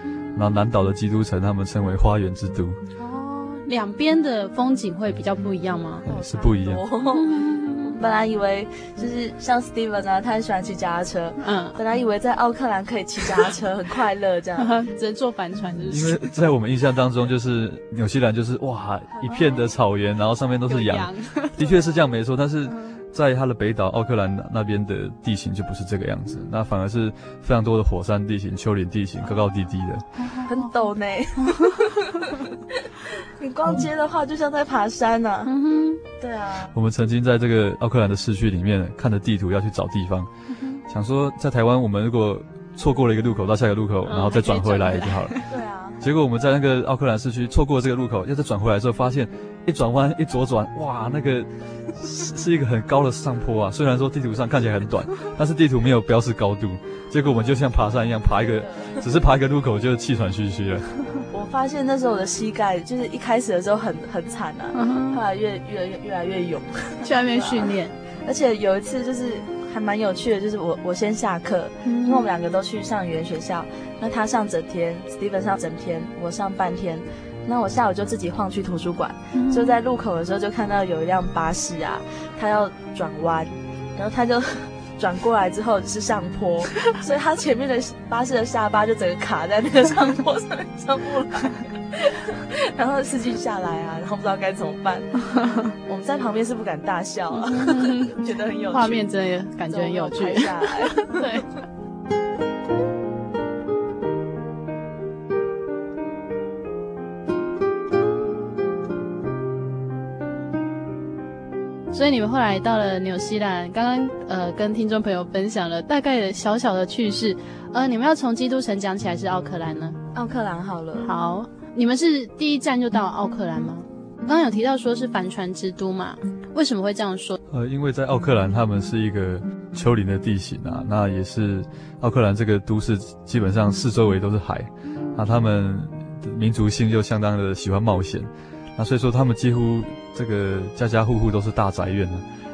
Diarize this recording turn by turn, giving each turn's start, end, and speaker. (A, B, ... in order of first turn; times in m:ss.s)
0:00.3-0:02.8 A
0:03.0-0:06.0 B
0:06.1-0:14.7 C
0:06.1-0:06.8 A
0:07.1-0:08.0 B
0:11.4-0:11.8 B
0:14.6-0:16.2 B
0:15.9-0:30.0 A
0:19.1-0:19.6 C
0:20.7-0:21.6 B
0:30.2-0:30.5 B
0:30.4-0:35.5 C
0:31.5-0:31.8 B
0:35.4-0:36.0 B
0:36.2-0:36.7 C
0:36.7-0:40.3 A
0:40.9-0:45.3 A
0:44.1-0:45.5 B
0:45.5-0:46.0 C
0:46.0-1:00.9 A
0:58.6-0:59.0 C
1:01.3-1:07.7 C
1:04.7-1:05.2 B
1:07.0-1:07.9 B
1:08.2-1:35.2 C
1:11.8-1:12.3 B
1:19.3-1:19.8 B
1:35.3-1:35.7 B
1:35.8-1:39.0 C
1:37.3-1:38.2 B
1:38.7-1:41.5 B
1:39.7-1:41.4 C
1:51.9-2:00.0 B
2:00.1-2:01.1 C
2:01.0-2:07.4 B
2:07.5-2:22.2 A